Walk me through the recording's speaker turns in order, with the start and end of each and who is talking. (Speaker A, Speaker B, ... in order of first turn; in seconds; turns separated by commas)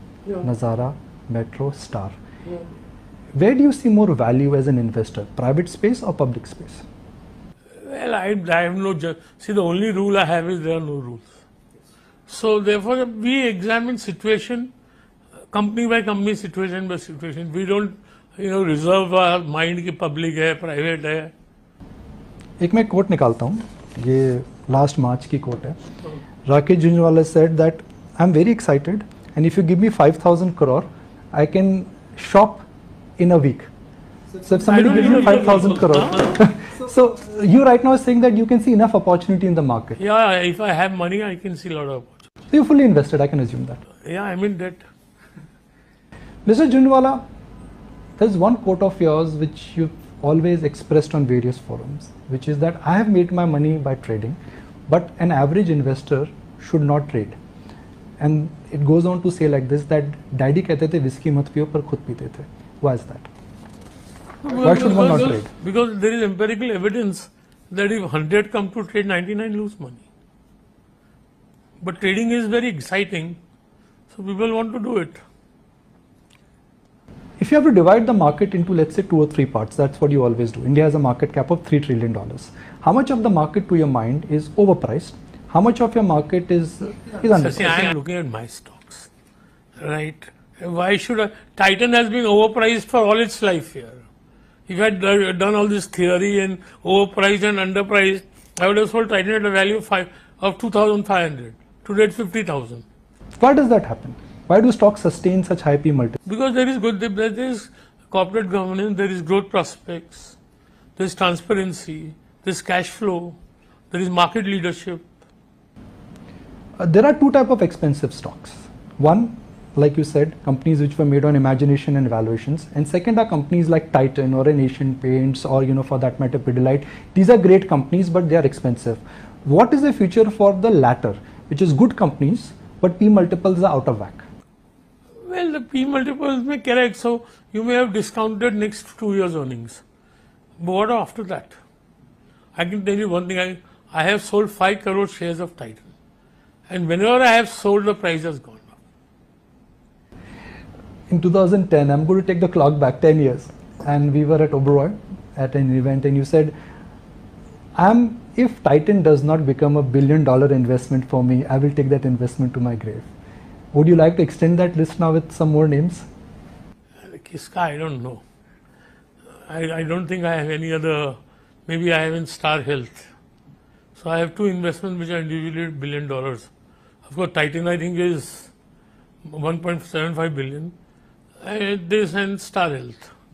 Speaker A: 0.4-2.2, Speaker A: 3.4-6.8, Speaker B: 7.8-11.3, Speaker B: 12.3-14.7, Speaker B: 15.5-21.3, Speaker A: 22.6-25.8, Speaker A: 26.4-32.6, Speaker A: 33.2-33.7, Speaker A: 34.4-40.0, Speaker B: 34.7-36.5, Speaker B: 40.0-42.2, Speaker A: 42.5-43.8, Speaker B: 44.0-44.8, Speaker A: 46.5-47.2, Speaker A: 48.2-57.4, Speaker A: 58.2-63.3, Speaker B: 64.4-70.0, Speaker A: 64.6-65.5, Speaker B: 71.8-73.4, Speaker B: 74.1-75.2, Speaker A: 77.4-87.9, Speaker B: 87.3-89.1, Speaker B: 89.8-94.0, Speaker B: 94.7-102.8, Speaker A: 103.4-106.2, Speaker B: 106.2-110.4, Speaker B: 111.0-113.4, Speaker B: 113.9-115.0, Speaker A: 116.8-134.2, Speaker B: 135.2-139.8, Speaker B: 140.6-141.6, Speaker B: 142.5-145.9, Speaker B: 146.7-148.8, Speaker A: 151.1-156.5, Speaker A: 157.8-163.1, Speaker A: 163.7-166.1, Speaker B: 167.0-168.2, Speaker B: 169.4-171.2, Speaker B: 171.7-173.1, Speaker B: 173.9-176.5, Speaker B: 177.0-178.5, Speaker B: 179.2-180.7, Speaker B: 181.4-183.1